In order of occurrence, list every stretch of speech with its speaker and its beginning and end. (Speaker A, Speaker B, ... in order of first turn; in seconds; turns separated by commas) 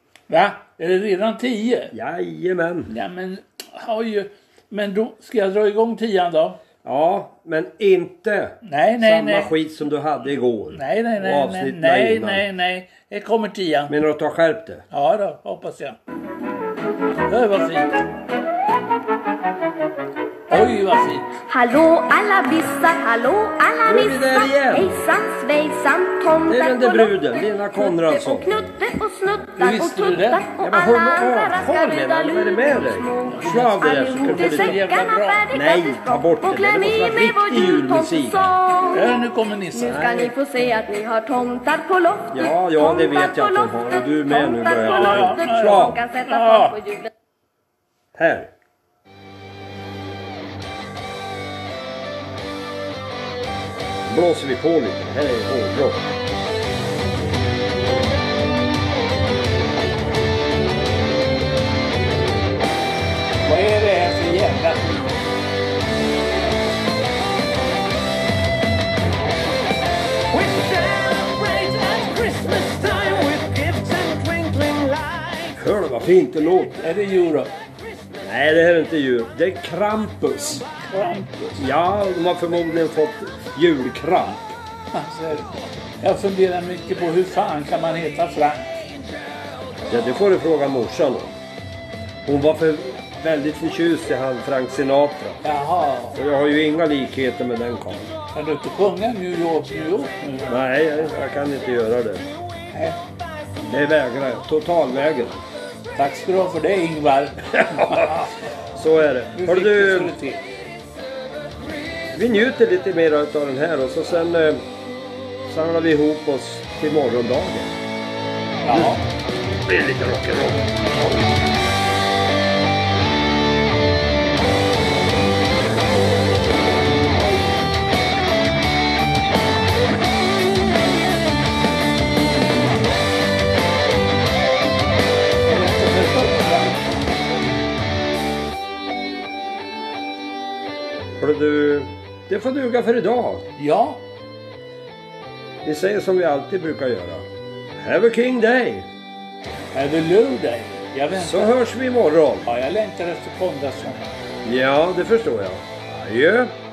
Speaker A: 0.3-1.9, Speaker B: 1.9-2.9, Speaker A: 2.9-6.6, Speaker B: 6.8-12.5, Speaker A: 8.6-9.5, Speaker A: 10.7-13.9, Speaker B: 13.9-14.8, Speaker A: 14.9-16.0, Speaker A: 17.3-18.0, Speaker A: 20.5-21.4, Speaker C: 21.5-47.1, Speaker B: 23.9-24.9, Speaker B: 26.5-28.5, Speaker A: 29.6-30.4, Speaker B: 30.6-34.8, Speaker A: 33.3-35.5, Speaker B: 35.5-38.5, Speaker A: 38.9-40.0, Speaker B: 39.8-40.3, Speaker B: 42.3-46.0, Speaker A: 44.9-46.8, Speaker B: 48.1-48.5, Speaker B: 54.1-56.1, Speaker A: 63.4-65.2, Speaker D: 70.4-75.5, Speaker B: 75.6-76.9, Speaker A: 76.8-77.5, Speaker B: 78.2-80.6, Speaker A: 80.8-81.7, Speaker B: 81.6-84.6, Speaker A: 84.9-88.9, Speaker B: 89.9-91.4, Speaker B: 92.2-95.4, Speaker A: 95.4-96.2, Speaker B: 96.2-98.1, Speaker A: 98.3-100.6, Speaker B: 100.5-102.3, Speaker A: 102.7-103.0, Speaker B: 103.6-105.4, Speaker A: 106.0-108.3, Speaker B: 107.7-108.2, Speaker B: 108.8-110.2, Speaker A: 109.3-110.4, Speaker B: 112.1-114.6, Speaker B: 115.4-117.8, Speaker A: 118.6-119.0, Speaker B: 119.6-120.6, Speaker A: 135.4-136.8, Speaker B: 141.2-143.4, Speaker A: 143.6-144.0, Speaker B: 145.7-147.3, Speaker B: 147.8-148.9, Speaker A: 149.7-151.6, Speaker B: 151.1-152.5, Speaker A: 152.4-154.1, Speaker B: 154.4-156.5